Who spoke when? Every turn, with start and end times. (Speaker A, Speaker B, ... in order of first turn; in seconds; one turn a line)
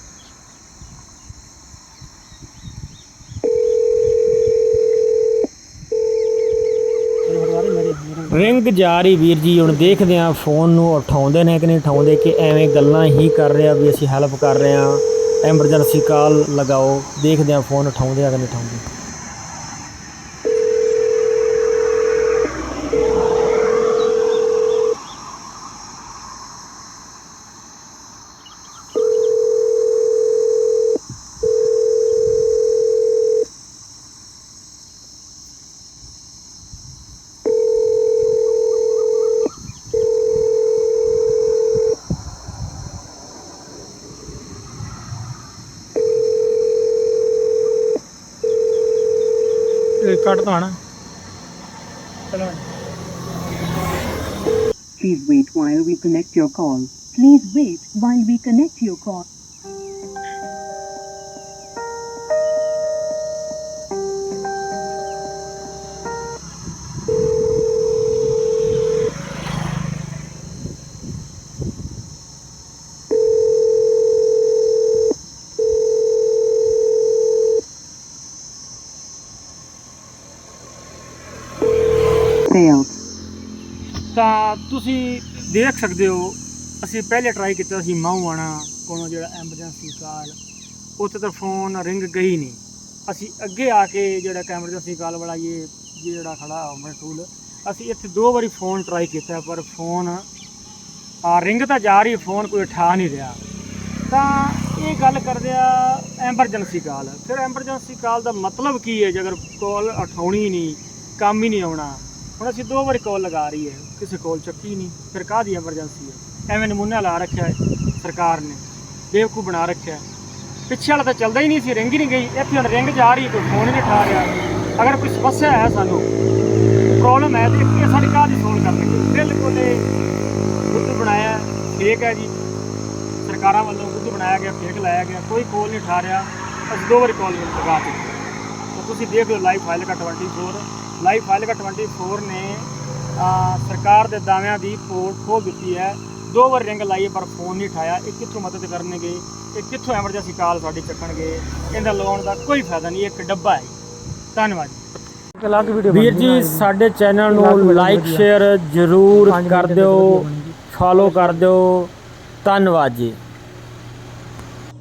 Speaker A: 7.3-18.8
Speaker A: 50.0-50.8
Speaker A: 52.3-52.6
Speaker B: 55.0-59.2
Speaker B: 82.5-83.0
Speaker A: 84.1-90.4
Speaker A: 91.0-100.2
Speaker A: 101.2-103.4
Speaker A: 104.1-120.0
Speaker A: 120.7-126.1
Speaker A: 126.8-129.9
Speaker A: 130.6-132.3
Speaker A: 133.2-138.1
Speaker A: 138.7-153.7
Speaker A: 154.3-154.9
Speaker C: 155.3-156.7
Speaker A: 155.9-161.9
Speaker C: 157.3-158.3
Speaker C: 159.1-161.4
Speaker A: 162.4-163.2